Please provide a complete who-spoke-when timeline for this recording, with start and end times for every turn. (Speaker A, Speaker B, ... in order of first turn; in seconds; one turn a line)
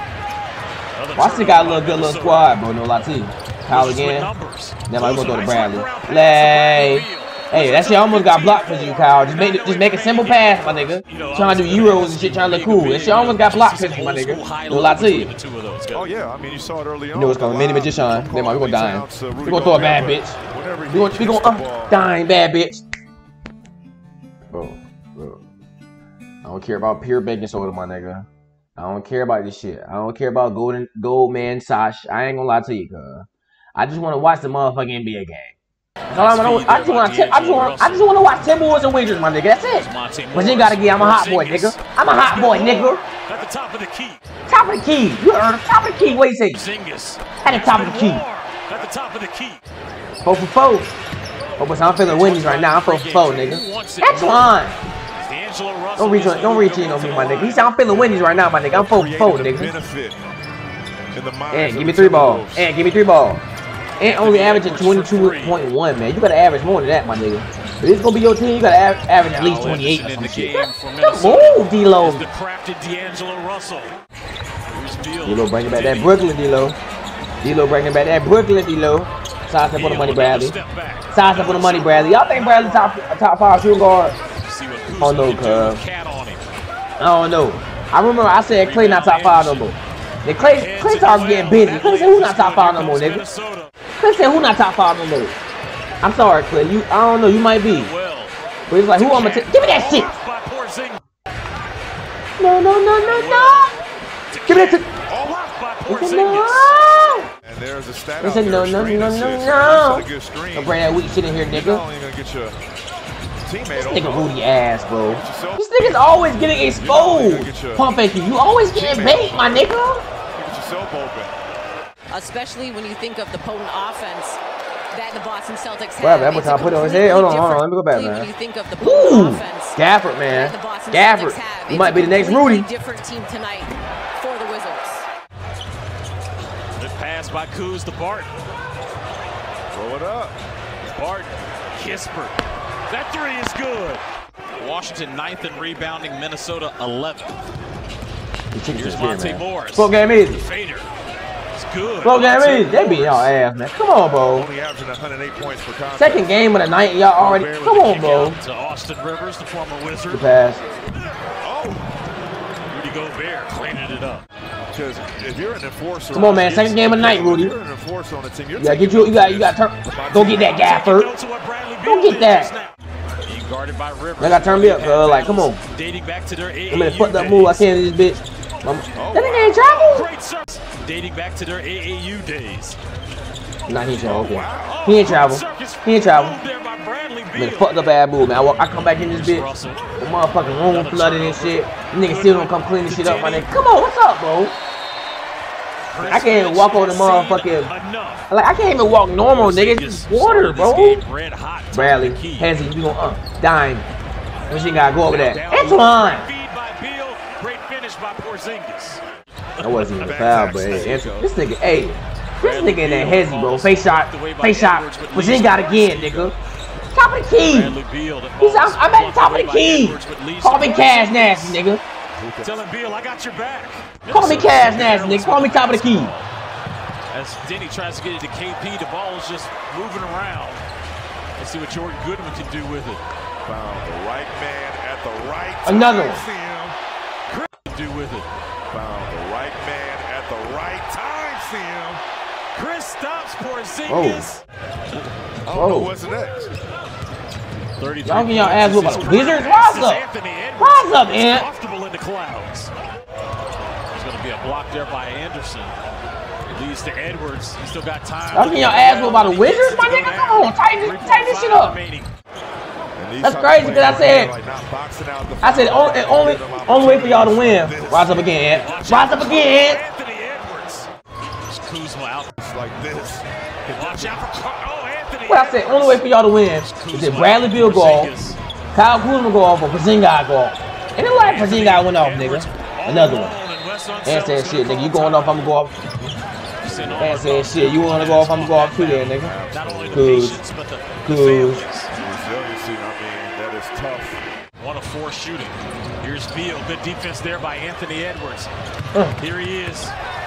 Speaker A: 0.9-2.5
Speaker B: 1.1-4.3
Speaker A: 3.7-16.1
Speaker B: 4.9-15.3
Speaker C: 15.9-22.0
Speaker B: 17.1-20.4
Speaker B: 20.9-22.8
Speaker B: 24.5-25.4
Speaker B: 26.4-35.6
Speaker B: 36.1-43.0
Speaker A: 36.1-38.1
Speaker A: 39.6-44.2
Speaker B: 44.5-46.6
Speaker A: 46.5-49.6
Speaker B: 47.4-48.2
Speaker B: 50.2-51.0
Speaker B: 51.6-54.8
Speaker A: 52.0-54.6
Speaker A: 55.2-57.7
Speaker B: 56.0-59.7
Speaker C: 58.7-60.2
Speaker C: 61.1-62.7
Speaker B: 61.5-63.4
Speaker B: 64.0-72.3
Speaker A: 64.0-65.6
Speaker A: 69.3-74.0
Speaker A: 74.7-76.2
Speaker B: 75.2-76.8
Speaker B: 77.4-80.5
Speaker A: 79.7-82.9
Speaker B: 81.1-84.2
Speaker A: 84.4-86.4
Speaker B: 85.0-85.8
Speaker B: 87.0-93.2
Speaker A: 88.6-89.8
Speaker A: 90.3-93.7
Speaker B: 94.0-95.3
Speaker B: 96.0-97.9
Speaker A: 97.7-98.4
Speaker B: 98.7-100.1
Speaker A: 98.9-101.0
Speaker B: 102.4-103.8
Speaker A: 103.0-103.8
Speaker A: 104.3-106.7
Speaker B: 104.5-104.9
Speaker B: 105.9-107.3
Speaker C: 107.4-110.9
Speaker B: 108.2-111.8
Speaker C: 111.5-112.5
Speaker C: 113.4-114.3
Speaker B: 113.7-120.0
Speaker C: 115.1-117.9
Speaker C: 118.7-119.7
Speaker C: 120.3-121.3
Speaker D: 122.1-135.1
Speaker B: 126.0-132.7
Speaker A: 136.8-138.3
Speaker C: 139.7-140.4
Speaker A: 140.8-144.0
Speaker A: 144.6-147.3
Speaker B: 148.5-150.5
Speaker A: 148.7-150.9
Speaker A: 151.5-153.3
Speaker B: 152.0-154.5
Speaker C: 154.3-156.3
Speaker B: 155.9-158.4
Speaker A: 157.1-160.2
Speaker B: 160.1-160.6
Speaker C: 161.4-161.8
Speaker A: 162.7-164.2
Speaker C: 164.7-170.6
Speaker B: 166.1-167.5
Speaker A: 166.5-167.0
Speaker B: 168.6-171.1
Speaker A: 170.3-177.7
Speaker B: 171.8-172.5
Speaker B: 174.2-175.6
Speaker B: 176.7-180.1
Speaker C: 178.9-179.5
Speaker A: 179.5-182.8
Speaker B: 183.7-186.4
Speaker C: 184.0-184.8
Speaker A: 184.6-187.7
Speaker B: 187.3-189.5
Speaker A: 188.9-193.7
Speaker B: 190.0-194.6
Speaker A: 195.9-198.3
Speaker B: 196.0-197.7
Speaker B: 198.3-201.0
Speaker A: 199.2-202.6
Speaker B: 201.7-203.9
Speaker B: 204.5-206.3
Speaker A: 205.1-209.0
Speaker B: 209.6-216.3
Speaker A: 209.6-209.9
Speaker C: 210.0-211.3
Speaker A: 210.7-211.0
Speaker A: 212.4-216.3
Speaker B: 216.9-217.8
Speaker A: 217.3-221.6
Speaker B: 218.4-221.8
Speaker C: 222.1-222.6
Speaker A: 222.4-226.3
Speaker B: 224.1-226.1
Speaker A: 227.1-230.6
Speaker A: 231.4-233.0
Speaker C: 233.4-236.8
Speaker B: 235.6-236.2
Speaker A: 237.3-238.3
Speaker C: 238.7-242.0
Speaker A: 242.5-244.4
Speaker B: 243.9-244.2
Speaker C: 245.4-246.5
Speaker B: 245.5-245.9
Speaker A: 247.8-252.7
Speaker B: 248.0-250.0
Speaker B: 250.6-251.4
Speaker A: 253.9-255.7
Speaker A: 256.5-262.1
Speaker B: 258.3-261.8
Speaker C: 262.9-268.3
Speaker B: 263.2-264.3
Speaker B: 265.4-269.8
Speaker A: 268.5-270.9
Speaker A: 271.5-272.3
Speaker C: 272.4-274.2
Speaker A: 273.7-278.4
Speaker B: 275.3-278.1
Speaker B: 278.7-283.4
Speaker A: 281.0-285.6
Speaker B: 284.0-285.7
Speaker A: 286.6-291.9
Speaker C: 286.7-287.1
Speaker B: 287.0-289.3
Speaker C: 289.1-290.3
Speaker B: 289.9-290.4
Speaker B: 291.0-291.6
Speaker C: 291.9-294.2
Speaker A: 294.6-298.5
Speaker A: 299.2-299.9